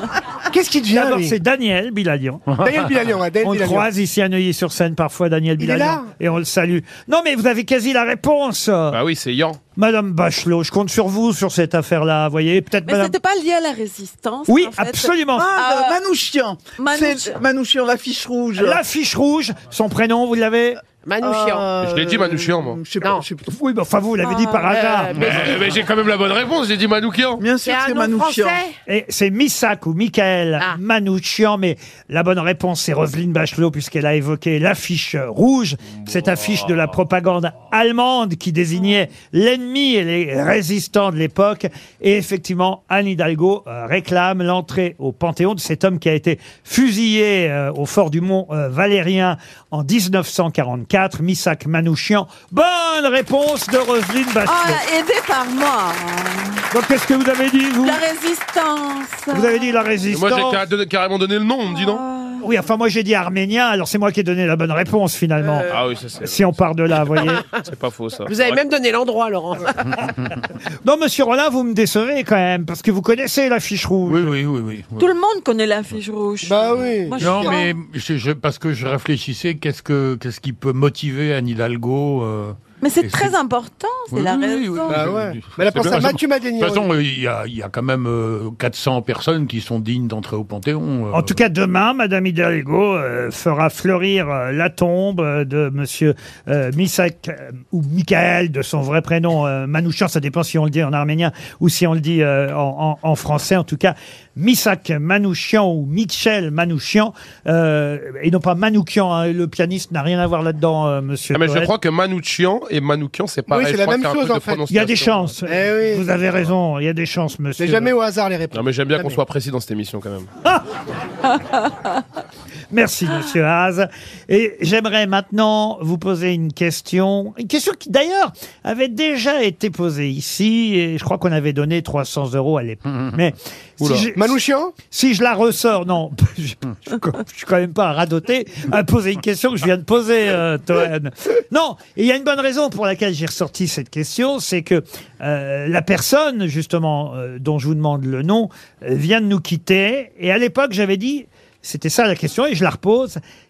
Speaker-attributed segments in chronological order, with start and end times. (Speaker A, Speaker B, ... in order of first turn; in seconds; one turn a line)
Speaker A: 0.5-1.3
Speaker B: 0.9-2.5
Speaker A: 2.6-3.9
Speaker B: 3.4-9.0
Speaker A: 5.6-6.1
Speaker C: 8.9-9.6
Speaker B: 9.8-13.1
Speaker D: 12.8-16.0
Speaker B: 14.5-15.5
Speaker E: 15.3-18.8
Speaker D: 16.8-17.4
Speaker B: 18.6-20.8
Speaker F: 21.0-21.7
Speaker E: 21.2-23.4
Speaker C: 21.8-22.8
Speaker B: 23.5-25.5
Speaker D: 24.2-24.7
Speaker F: 24.7-25.7
Speaker C: 25.2-27.4
Speaker E: 27.4-28.6
Speaker F: 27.6-28.7
Speaker B: 28.9-54.8
Speaker D: 54.5-56.6
Speaker B: 56.7-58.0
Speaker D: 57.8-59.6
Speaker B: 59.3-60.6
Speaker C: 60.1-62.0
Speaker D: 61.7-62.4
Speaker B: 62.4-67.4
Speaker C: 65.7-66.6
Speaker C: 67.6-68.6
Speaker F: 68.3-69.9
Speaker B: 70.8-74.3
Speaker G: 74.0-75.1
Speaker D: 75.0-77.7
Speaker A: 76.4-77.4
Speaker G: 77.2-83.3
Speaker D: 82.8-85.0
Speaker G: 84.1-91.4
Speaker A: 84.9-86.9
Speaker C: 85.7-86.0
Speaker B: 91.1-111.7
Speaker C: 111.3-115.3
Speaker A: 113.5-114.6
Speaker B: 114.7-117.9
Speaker A: 115.5-116.1
Speaker A: 117.6-119.2
Speaker C: 118.5-120.3
Speaker B: 122.7-134.4
Speaker G: 132.8-133.2
Speaker C: 133.8-134.1
Speaker A: 134.1-134.7
Speaker B: 134.9-153.2